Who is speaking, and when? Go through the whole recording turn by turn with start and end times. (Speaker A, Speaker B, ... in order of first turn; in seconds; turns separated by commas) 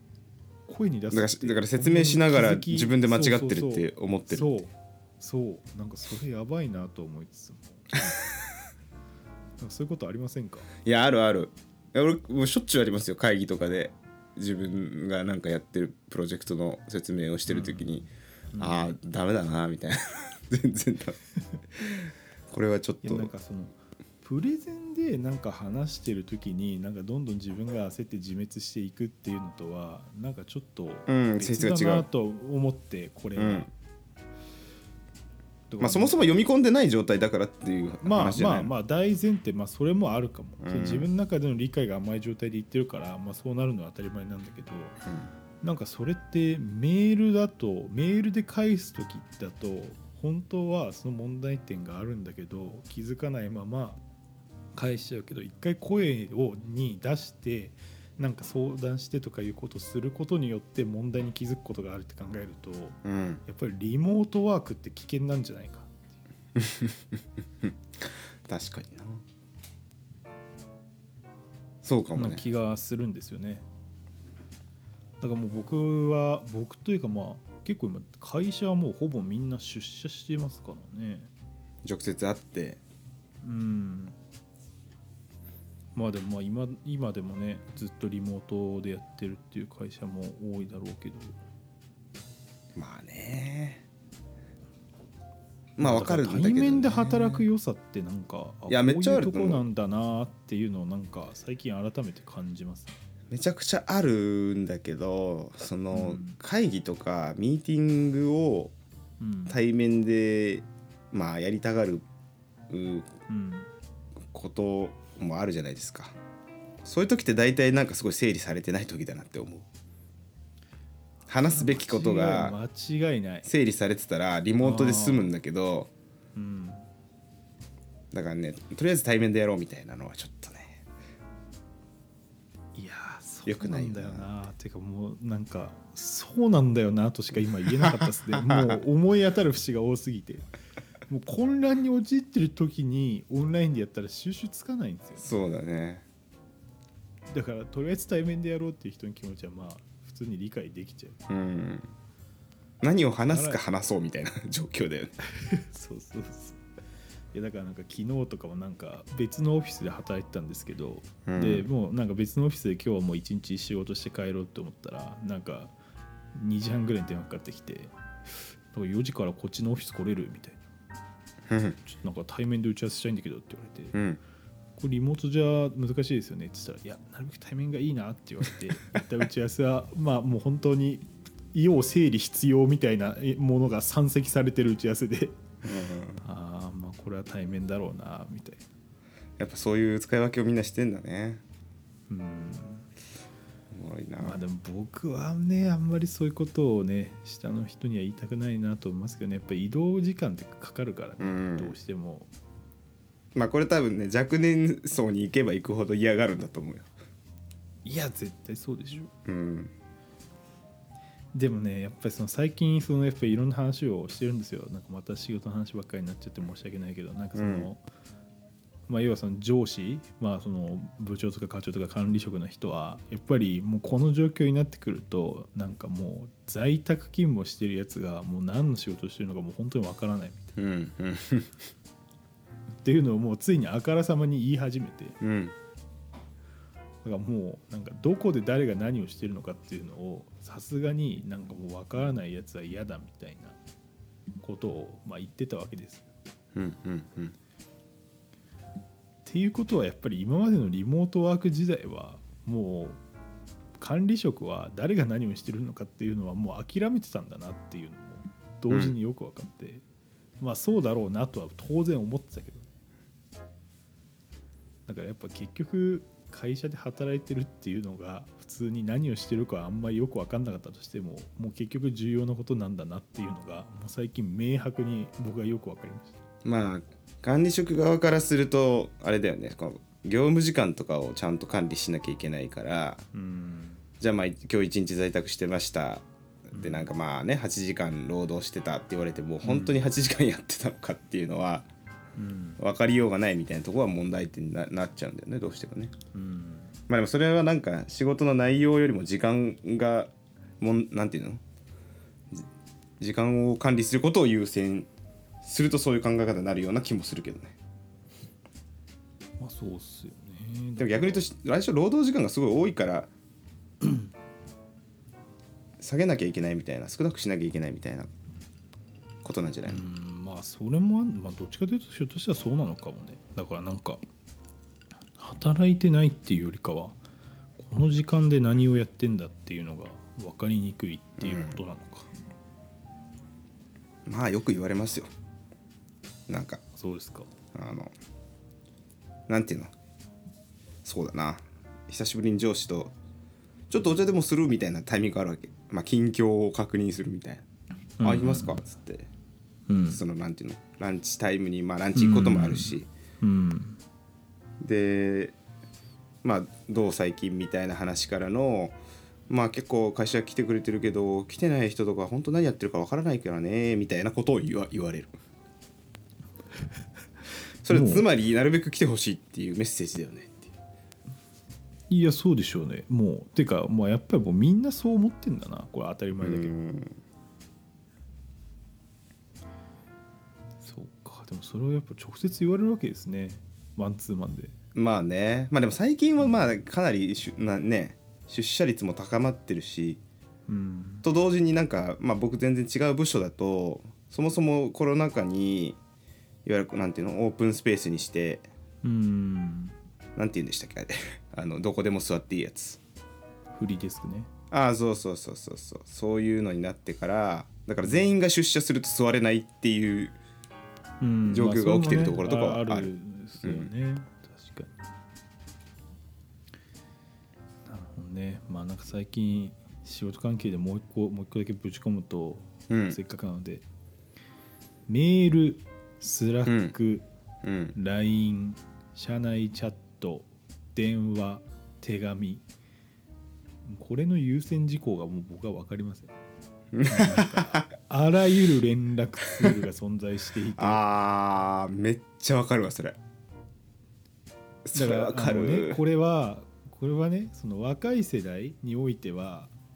Speaker A: 0.7-8.1, Speaker B: 1.1-4.5, Speaker A: 9.6-10.7, Speaker B: 10.8-21.2, Speaker A: 17.5-17.9, Speaker A: 18.5-19.0, Speaker B: 22.5-23.3, Speaker A: 23.0-33.7, Speaker B: 31.1-32.1, Speaker B: 33.4-33.7, Speaker A: 35.7-36.2, Speaker B: 35.8-38.7, Speaker A: 38.0-45.0, Speaker B: 40.6-41.1, Speaker A: 45.6-54.0, Speaker A: 54.8-65.9, Speaker B: 63.0-63.4, Speaker B: 66.6-69.2, Speaker B: 71.8-72.4, Speaker A: 72.1-73.7, Speaker A: 75.2-81.3, Speaker B: 81.8-82.8, Speaker A: 83.4-84.2, Speaker A: 86.0-91.4, Speaker B: 92.8-93.8, Speaker B: 95.8-97.5, Speaker A: 95.8-103.0, Speaker B: 98.7-99.6, Speaker B: 103.3-108.8, Speaker A: 105.9-106.4, Speaker A: 109.2-109.6, Speaker B: 109.5-112.0, Speaker B: 112.7-113.1, Speaker A: 113.3-113.7, Speaker B: 114.3-116.2, Speaker B: 116.8-119.7, Speaker A: 121.2-123.5, Speaker B: 121.3-122.6, Speaker B: 123.5-125.9, Speaker A: 124.6-125.3, Speaker A: 126.4-126.9, Speaker B: 128.1-130.8, Speaker A: 132.8-140.5, Speaker B: 133.5-134.3, Speaker B: 137.8-138.8, Speaker A: 141.1-145.3, Speaker B: 145.2-146.1, Speaker A: 147.3-151.2, Speaker B: 151.3-151.9, Speaker B: 152.8-155.2, Speaker A: 153.3-153.6, Speaker A: 155.4-156.6, Speaker A: 157.3-165.7, Speaker B: 161.3-161.7, Speaker A: 166.3-170.7, Speaker B: 171.5-171.8, Speaker A: 171.8-174.0, Speaker B: 173.9-174.2, Speaker A: 174.8-185.5, Speaker B: 185.6-186.2, Speaker A: 186.2-188.6, Speaker B: 189.4-191.4, Speaker A: 192.1-192.9, Speaker B: 193.7-194.4, Speaker A: 194.2-202.3, Speaker B: 201.2-201.8, Speaker B: 203.3-206.9, Speaker A: 207.8-209.1, Speaker B: 209.2-209.7, Speaker A: 211.3-217.8, Speaker B: 217.3-217.7, Speaker A: 218.9-230.5, Speaker B: 230.6-231.6, Speaker A: 232.8-235.2, Speaker B: 235.2-235.6, Speaker A: 237.0-243.6, Speaker A: 244.4-246.1, Speaker B: 246.5-247.3, Speaker A: 249.2-253.0, Speaker A: 253.8-259.8, Speaker B: 258.7-259.0, Speaker A: 260.4-262.7, Speaker A: 264.9-276.2, Speaker B: 276.4-283.0, Speaker A: 283.1-283.8, Speaker B: 284.0-291.7, Speaker A: 286.5-286.9, Speaker A: 289.4-289.8, Speaker A: 292.2-292.6, Speaker B: 292.6-295.9, Speaker A: 296.1-296.8, Speaker B: 296.9-301.4, Speaker B: 303.0-304.9, Speaker B: 305.4-307.6, Speaker A: 309.4-311.3, Speaker B: 310.8-313.1, Speaker A: 313.8-314.1, Speaker B: 315.8-318.1, Speaker B: 319.2-319.9, Speaker A: 319.7-324.0, Speaker A: 325.2-327.0, Speaker A: 327.6-332.1, Speaker B: 331.2-331.6, Speaker B: 334.1-335.1, Speaker B: 336.3-336.6, Speaker A: 336.8-337.3, Speaker B: 337.5-337.9, Speaker B: 339.3-339.7, Speaker B: 340.8-342.9, Speaker B: 343.7-347.5, Speaker A: 348.0-348.6, Speaker B: 348.0-349.1, Speaker A: 349.7-350.0, Speaker B: 349.9-352.9, Speaker A: 351.9-353.8, Speaker B: 354.6-355.4, Speaker B: 356.2-358.8, Speaker B: 359.3-365.1, Speaker B: 367.6-370.5, Speaker A: 367.7-368.1, Speaker A: 371.9-376.5, Speaker B: 376.2-377.0, Speaker A: 380.6-384.6, Speaker B: 384.8-390.0, Speaker A: 390.5-391.1, Speaker B: 391.0-395.8, Speaker B: 396.4-398.5, Speaker A: 398.8-399.8, Speaker B: 400.2-402.8, Speaker A: 403.5-404.3, Speaker B: 404.5-410.2, Speaker A: 411.0-414.8, Speaker B: 411.3-412.9, Speaker B: 413.4-413.7, Speaker A: 417.7-423.6, Speaker B: 422.7-423.0, Speaker A: 424.9-427.1, Speaker B: 426.5-426.7, Speaker B: 427.4-427.8, Speaker A: 427.8-432.4, Speaker A: 433.6-436.1, Speaker B: 436.7-437.6, Speaker A: 436.9-440.8, Speaker B: 440.6-443.0, Speaker B: 444.6-445.8, Speaker A: 444.7-449.5